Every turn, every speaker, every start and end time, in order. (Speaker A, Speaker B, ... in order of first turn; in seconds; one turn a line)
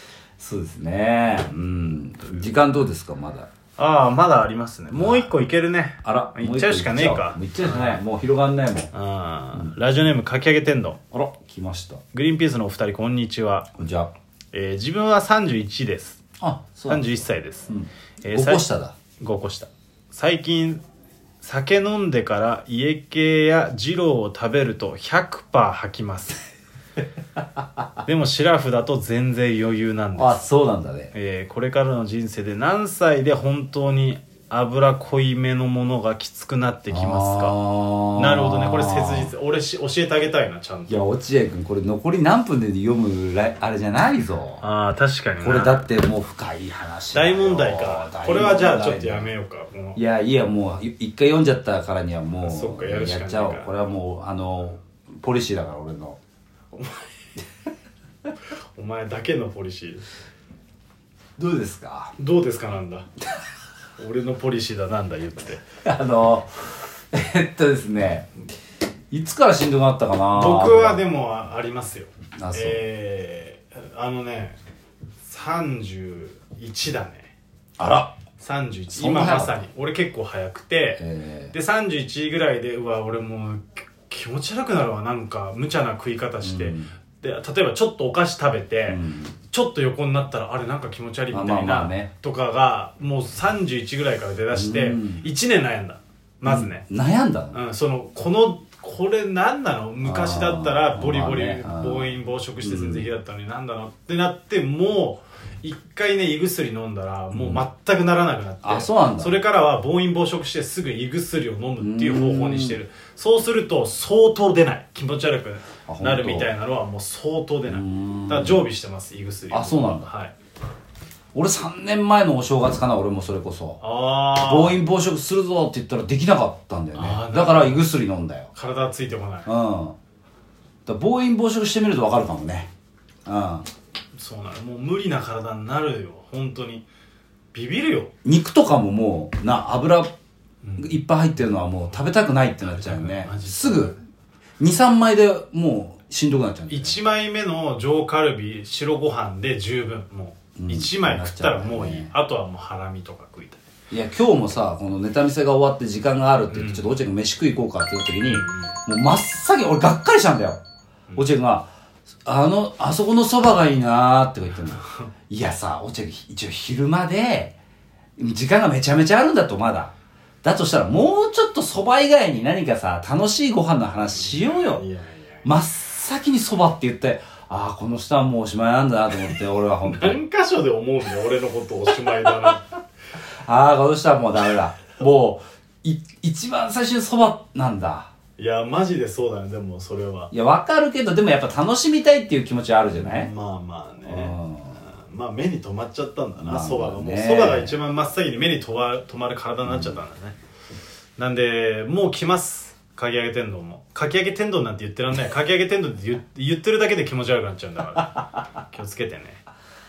Speaker A: 0.4-3.5
Speaker B: 3.8-8.0
Speaker A: 4.9-5.3
Speaker A: 6.0-8.9
Speaker B: 8.9-11.0
Speaker A: 11.1-12.0
Speaker B: 12.1-13.7
Speaker A: 13.8-14.1
Speaker B: 14.5-16.2
Speaker A: 16.4-18.9
Speaker B: 16.9-20.8
Speaker B: 21.4-26.4
Speaker B: 28.0-30.4
Speaker A: 30.1-31.1
Speaker B: 31.1-37.5
Speaker A: 36.9-39.3
Speaker B: 38.1-41.0
Speaker A: 40.9-44.6
Speaker B: 44.6-45.8
Speaker A: 45.4-49.3
Speaker B: 47.1-50.0
Speaker A: 50.0-56.2
Speaker B: 52.4-53.7
Speaker B: 56.7-57.1
Speaker B: 58.8-60.0
Speaker A: 61.4-62.1
Speaker B: 62.2-63.1
Speaker B: 64.0-65.6
Speaker A: 65.8-68.3
Speaker A: 69.1-71.0
Speaker B: 70.3-74.6
Speaker A: 72.4-72.8
Speaker B: 75.2-77.3
Speaker A: 77.8-78.2
Speaker B: 78.4-96.8
Speaker A: 78.9-79.5
Speaker A: 81.0-81.5
Speaker A: 86.4-86.9
Speaker A: 88.9-89.4
Speaker A: 91.3-92.1
Speaker A: 94.5-95.2
Speaker A: 96.4-97.6
Speaker B: 97.5-120.3
Speaker A: 100.0-103.1
Speaker A: 107.3-107.6
Speaker A: 108.6-109.4
Speaker A: 111.8-112.8
Speaker A: 115.9-116.5
Speaker A: 117.7-118.6
Speaker A: 119.5-120.1
Speaker A: 121.3-128.5
Speaker B: 123.8-124.8
Speaker B: 127.0-127.8
Speaker B: 128.5-129.5
Speaker A: 129.4-129.9
Speaker A: 130.8-132.7
Speaker A: 133.2-133.7
Speaker B: 134.1-136.8
Speaker B: 137.5-138.1
Speaker A: 138.2-140.1
Speaker B: 140.6-141.0
Speaker A: 140.8-143.9
Speaker B: 142.6-144.0
Speaker A: 144.6-147.0
Speaker B: 146.7-153.6
Speaker A: 150.6-152.1
Speaker A: 153.9-160.6
Speaker B: 156.5-156.9
Speaker B: 158.2-158.8
Speaker A: 161.2-161.7
Speaker A: 162.2-167.6
Speaker B: 164.6-165.1
Speaker A: 168.2-169.9
Speaker A: 170.4-174.8
Speaker B: 174.1-175.5
Speaker A: 175.4-180.2
Speaker B: 179.8-182.7
Speaker A: 183.4-188.1
Speaker B: 188.4-190.3
Speaker A: 190.3-193.3
Speaker B: 192.9-200.3
Speaker A: 194.0-194.8
Speaker A: 196.4-197.8
Speaker A: 199.6-200.0
Speaker B: 201.2-209.4